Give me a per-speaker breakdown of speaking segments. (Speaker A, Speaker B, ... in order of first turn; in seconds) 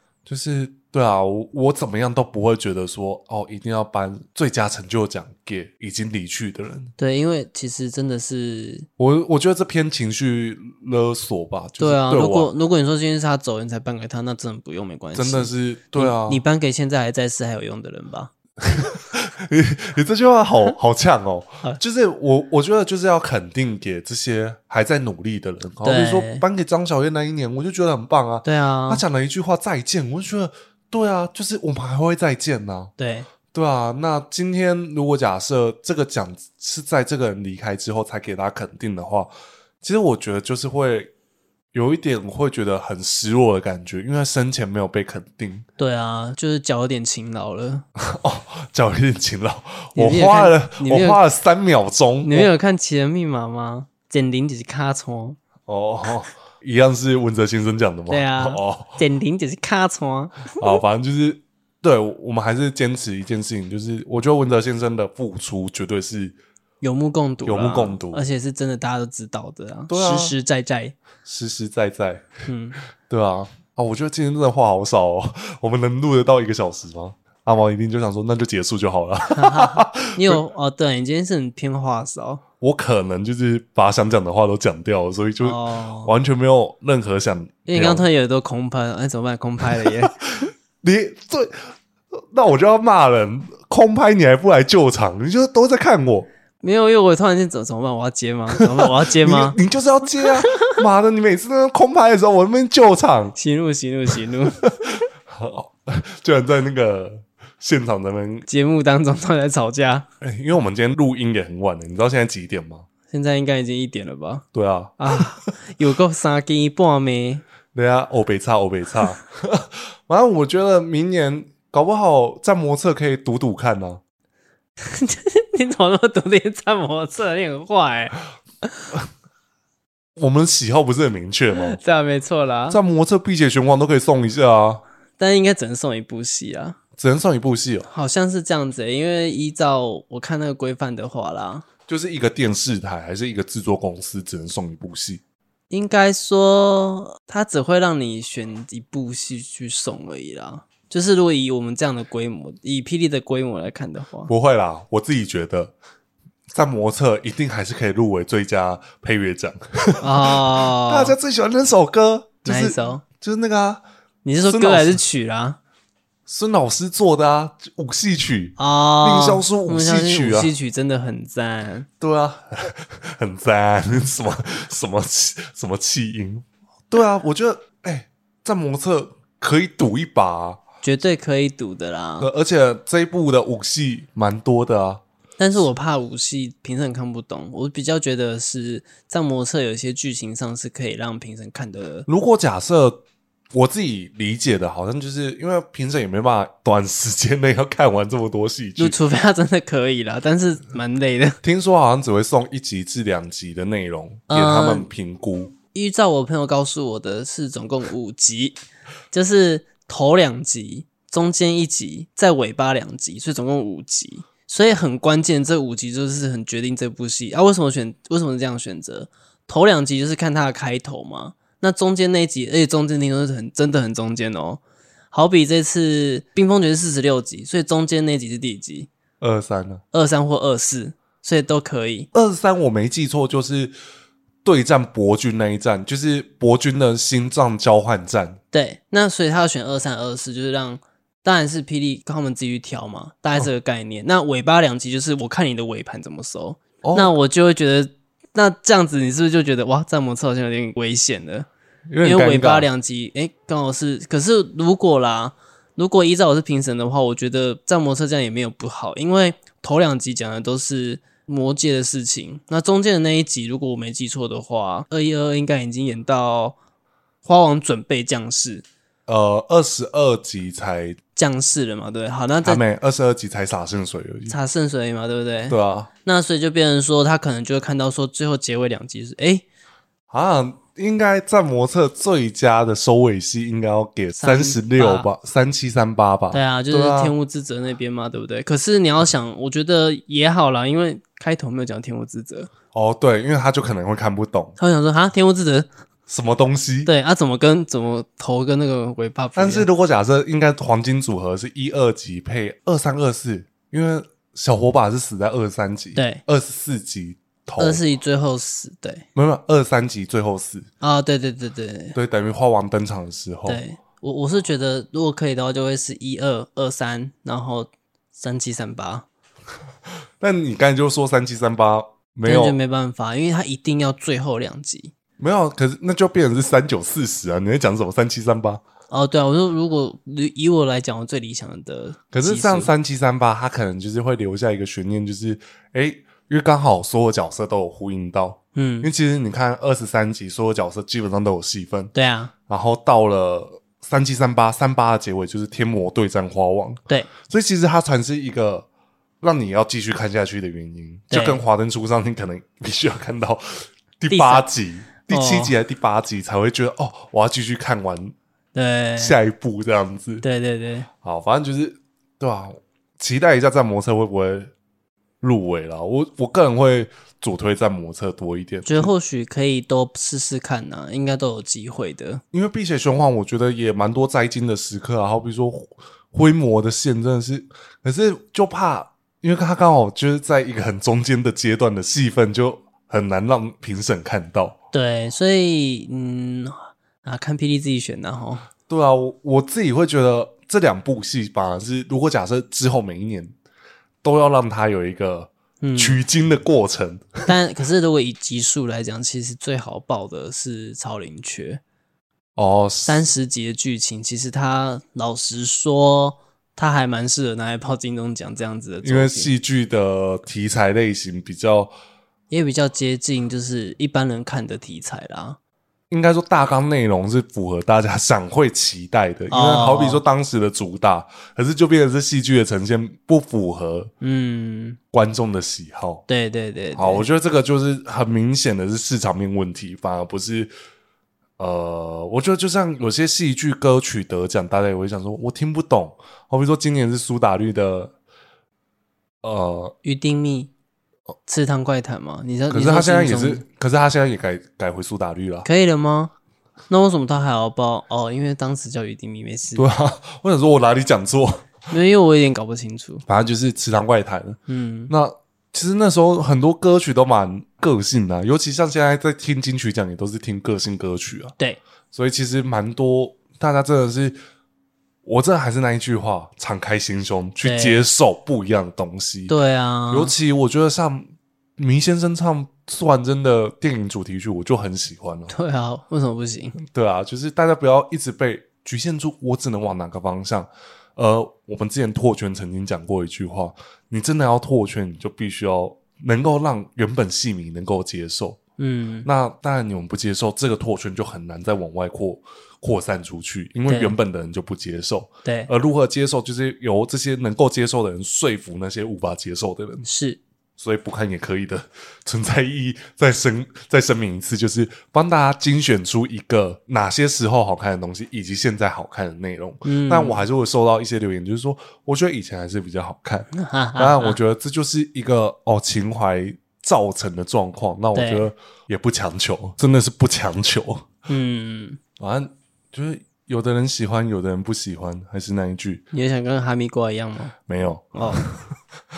Speaker A: 0.3-6.9, 9.0-12.5, 15.2-16.4, 18.6-32.9, 33.5-41.1, 41.7-45.7, 48.0-52.5, 55.7-59.0, 60.6-66.4, 67.4-68.2, 69.9-70.3, 71.2-72.3, 73.1-80.4, 82.6-88.1, 89.7-96.3, 98.6-103.4, 104.8-108.5, 110.2-112.9, 114.5-115.5, 117.7-124.0, 130.2-131.8, 132.7-134.8, 137.0-137.9, 141.9-145.2, 154.3-155.8, 156.5-163.8, 164.4-165.0, 166.3-170.5, 172.0-180.6, 182.2-185.0, 192.1-199.0, 201.4-205.6, 229.2-229.8, 232.1-233.8, 234.4-238.4, 246.8-247.1, 251.9-252.7, 269.1-271.0, 272.4-274.4, 275.5-275.9, 280.1-287.1, 292.7-294.6, 296.1-296.9, 299.4-307.8, 309.1-310.7, 311.9-313.6, 320.2-322.6, 325.2-328.6, 332.1-341.9, 342.5-348.7, 349.2-358.1, 359.0-360.2, 361.0-364.5, 365.2-368.9, 372.3-384.6, 388.7-393.4, 394.0-397.3, 402.4-403.1, 408.8-411.7, 415.9-423.9, 424.9-426.1, 426.8-430.5, 431.4-437.9, 439.2-439.8, 442.5-445.5, 449.6-451.5, 453.1-461.4, 461.9-464.2, 465.1-469.3, 469.9-475.3, 476.6-488.4, 489.1-499.9, 500.6-520.9, 522.0-525.9, 527.5-528.4
Speaker B: 7.0-8.9, 11.8-18.3, 25.8-26.4, 28.4-29.0, 33.0-33.3, 45.8-47.9, 50.0-51.2, 52.2-55.4, 58.1-60.8, 66.8-71.0, 72.5-72.8, 79.3-82.4, 85.4-86.1, 87.7-90.2, 96.6-99.6, 103.4-104.9, 108.5-110.1, 113.1-114.5, 115.0-117.5, 124.8-128.2, 131.5-132.8, 135.2-136.8, 137.9-141.7, 145.7-154.3, 160.0-161.2, 162.5-163.0, 164.2-165.6, 168.6-171.9, 180.8-182.3, 185.4-192.1, 198.8-201.4, 204.3-204.9, 205.7-208.6, 209.1-224.6, 225.1-228.9, 229.9-232.1, 238.5-251.5, 252.0-266.6, 267.2-268.6, 271.2-272.6, 274.3-279.4, 284.2-285.1, 286.3-292.5, 294.6-295.7, 296.9-299.7, 306.0-306.2, 307.6-309.1, 310.8-312.0, 313.5-319.1, 322.2-324.9, 328.9-332.7, 338.6-338.9, 341.9-342.3, 351.1-351.4, 354.1-354.5, 355.1-355.5, 358.5-359.2, 360.2-360.9, 368.7-372.2, 384.7-388.4, 395.6-396.0, 397.3-401.6, 402.9-409.3, 412.3-415.4, 419.3-420.0, 424.0-424.8, 426.1-427.1, 439.8-440.5, 441.3-443.4, 445.4-446.1, 446.7-449.7, 451.7-453.0, 454.5-454.9, 467.4-467.8, 469.3-470.1, 475.3-476.6, 488.6-489.1, 493.7-494.0, 495.2-495.5, 499.8-500.2, 509.6-510.2, 513.4-514.2, 518.0-518.3, 521.1-521.8, 525.9-527.3, 528.0-528.3